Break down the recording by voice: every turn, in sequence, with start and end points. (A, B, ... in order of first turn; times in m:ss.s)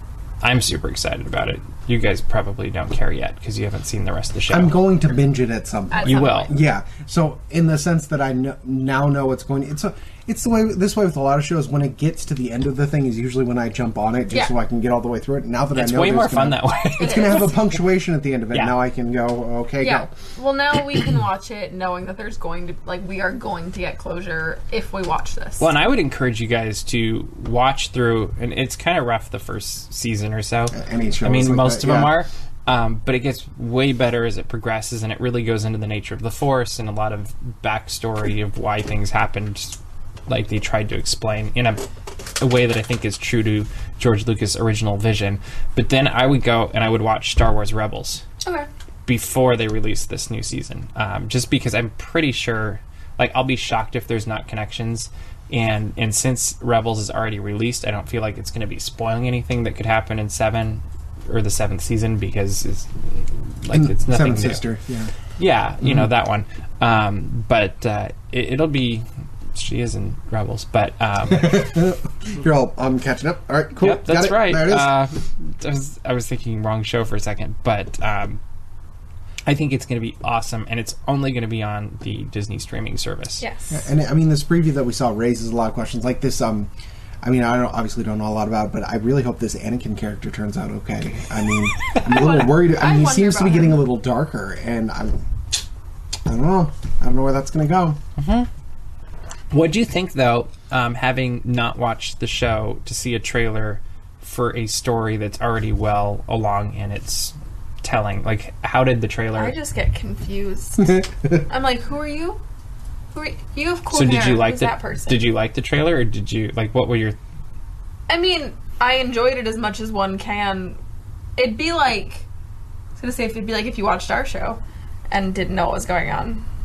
0:00.4-0:04.8 A
0:04.5-0:20.1 B
0:05.9-0:06.5 C
0:06.0-0:06.5 A
0:15.7-0:17.5 A
0:17.0-0:17.6 C
0:18.5-0:18.8 A
0:19.8-0:25.7 C
0:25.6-0:39.8 A
0:30.7-0:32.1 B
0:40.3-0:41.8 A
0:42.4-0:48.2 A
0:48.4-0:48.7 C
0:49.1-1:04.6 A
1:03.7-1:05.1 B
1:05.4-1:11.8 A
1:05.8-1:06.1 B
1:11.3-1:14.9 B
1:13.8-1:18.4 A
1:19.4-1:23.4 A
1:23.4-1:23.8 C
1:23.7-1:26.7 B
1:27.2-1:35.2 B
1:32.0-1:33.8 C
1:36.3-1:38.0 B
1:38.2-1:38.5 A
1:39.5-1:49.6 A
1:49.4-1:52.4 C
1:53.1-1:55.3 C
1:53.9-1:57.2 A
1:58.1-2:00.8 C
2:01.4-2:02.3 C
2:03.0-2:06.4 C